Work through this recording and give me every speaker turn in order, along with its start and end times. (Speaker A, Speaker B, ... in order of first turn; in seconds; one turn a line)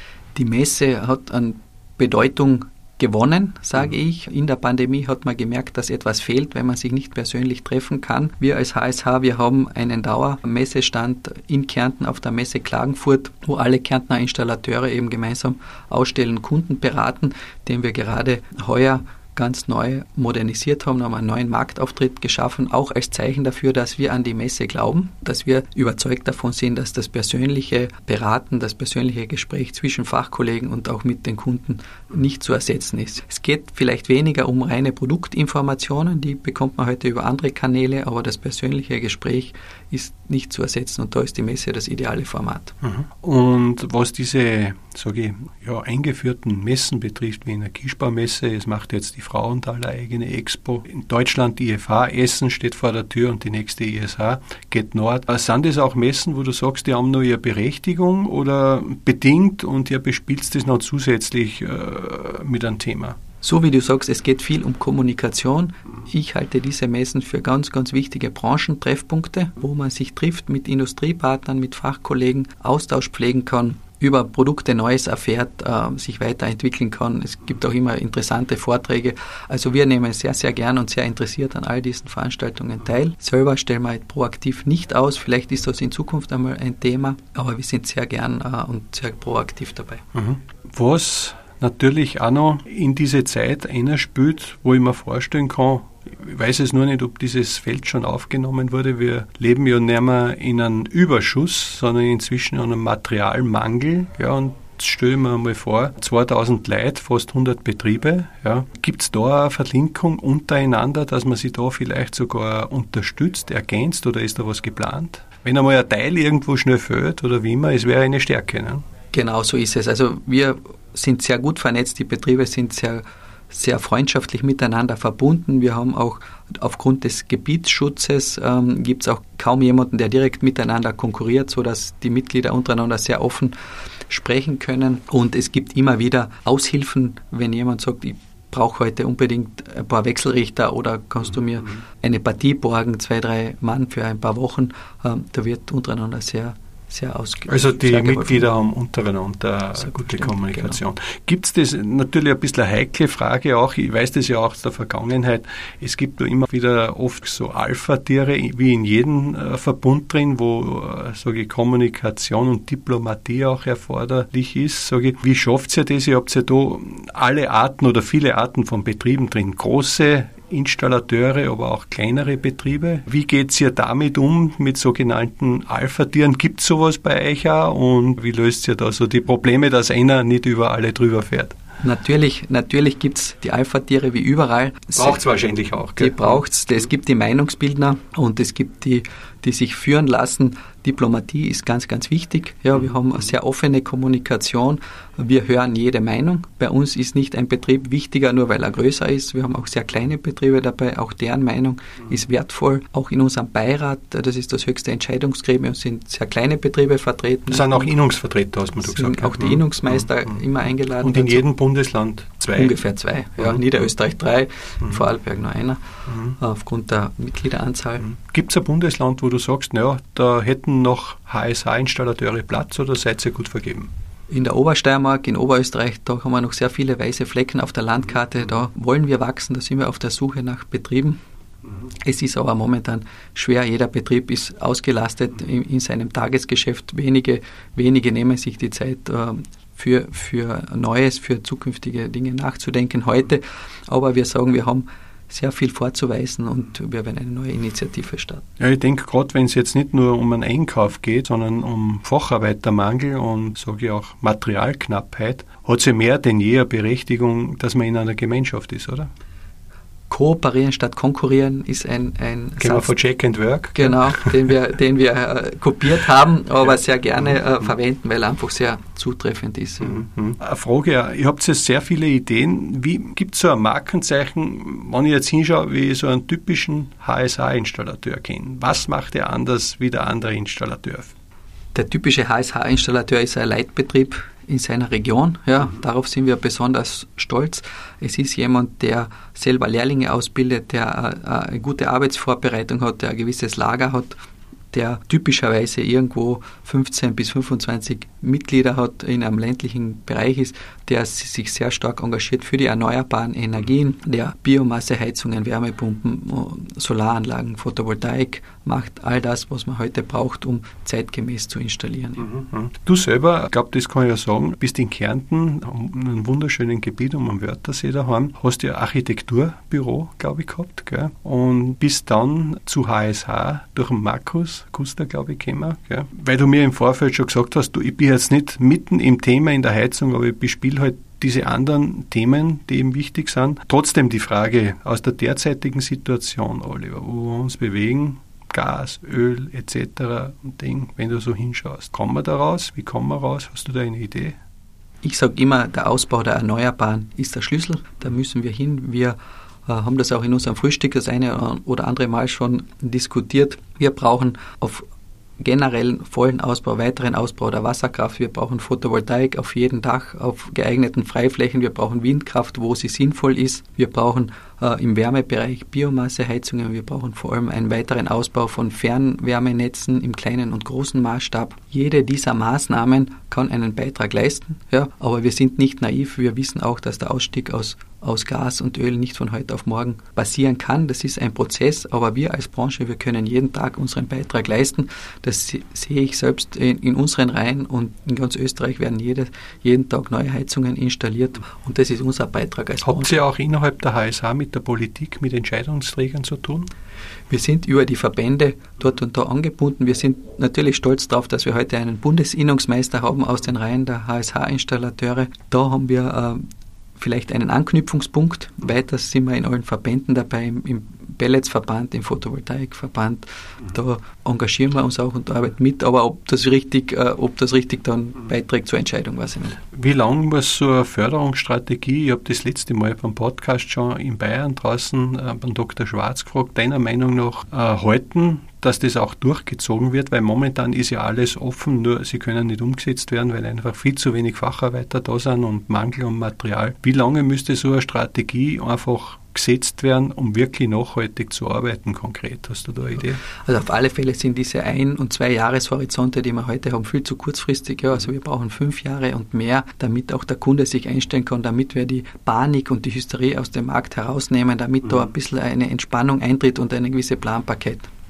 Speaker A: 0.3-42.7
Speaker B: 42.8-63.1
Speaker A: 63.4-90.0
Speaker B: 90.1-118.8
Speaker A: 119.1-133.5
Speaker A: 134.1-148.5
Speaker B: 147.5-181.5
Speaker A: 149.8-150.8
Speaker A: 181.8-185.2
Speaker B: 184.9-186.4
Speaker A: 186.0-207.9
Speaker B: 207.5-210.1
Speaker A: 208.8-211.4
Speaker B: 211.0-212.8
Speaker A: 212.5-215.8
Speaker B: 213.4-213.7
Speaker B: 216.1-216.3
Speaker A: 216.3-218.1
Speaker B: 218.1-223.9
Speaker A: 224.3-231.2
Speaker A: 231.9-248.4
Speaker B: 248.6-259.1
Speaker A: 260.1-262.9
Speaker B: 262.6-264.5
Speaker A: 263.7-270.0
Speaker B: 269.8-281.1
Speaker A: 281.7-294.1
Speaker A: 294.7-312.3
Speaker B: 312.2-344.4
Speaker A: 345.0-354.8
Speaker A: 355.4-393.2
Speaker B: 392.8-396.7
Speaker A: 397.3-406.4
Speaker A: 407.0-419.6
Speaker B: 419.7-443.2
Speaker A: 443.4-457.9